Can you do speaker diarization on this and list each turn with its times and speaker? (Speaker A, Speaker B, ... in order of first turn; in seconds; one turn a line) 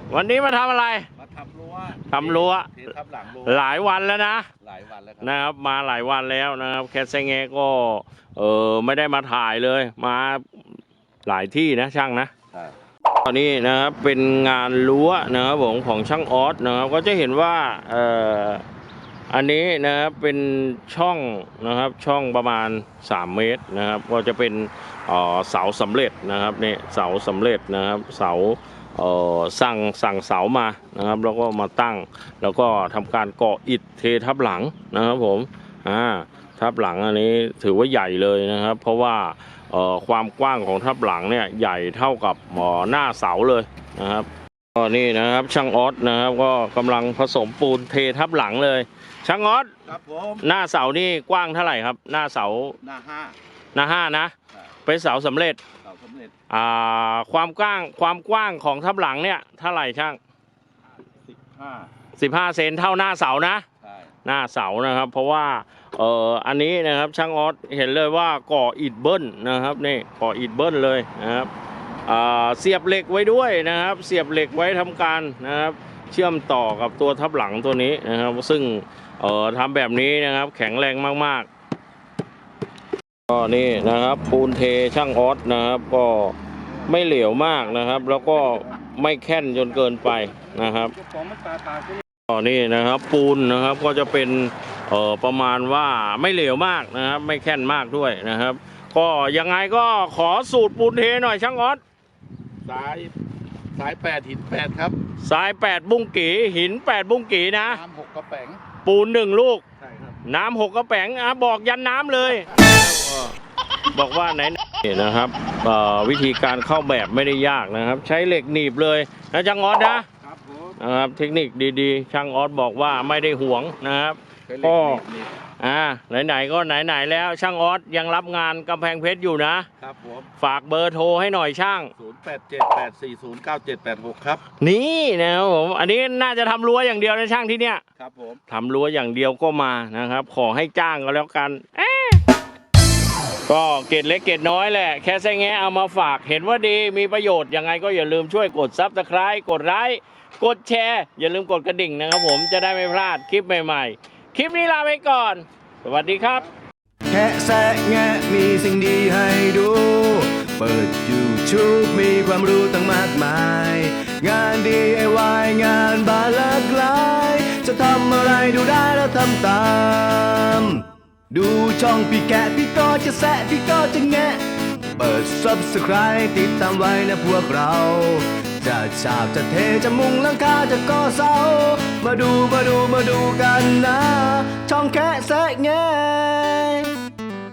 Speaker A: 0.1-1.1
Speaker B: 1.2-3.6
Speaker A: 2.0-4.5
Speaker B: 4.6-5.4
Speaker A: 5.2-10.7
Speaker A: 11.3-12.3
Speaker A: 13.2-18.6
Speaker A: 19.3-49.7
Speaker B: 49.9-50.4
Speaker A: 50.4-52.8
Speaker B: 52.8-53.4
Speaker A: 53.7-55.6
Speaker B: 55.8-56.3
Speaker A: 56.5-60.2
Speaker B: 61.4-61.9
Speaker A: 62.2-63.6
Speaker A: 64.2-71.5
Speaker A: 72.1-81.5
Speaker A: 83.3-91.0
Speaker B: 88.0-88.6
Speaker B: 91.0-92.0
Speaker A: 92.3-101.8
Speaker B: 102.7-103.1
Speaker B: 103.7-105.0
Speaker A: 105.2-107.8
Speaker B: 107.7-108.6
Speaker A: 108.8-109.6
Speaker B: 109.8-110.2
Speaker A: 110.2-112.7
Speaker B: 112.6-113.3
Speaker A: 113.9-120.1
Speaker B: 120.2-120.8
Speaker A: 120.8-125.0
Speaker B: 124.5-125.3
Speaker A: 125.6-129.7
Speaker B: 129.8-130.3
Speaker A: 130.4-131.9
Speaker B: 132.0-134.4
Speaker A: 134.6-137.8
Speaker B: 138.0-138.4
Speaker A: 138.5-142.2
Speaker A: 143.5-156.5
Speaker C: 157.1-174.4
Speaker C: 175.0-186.9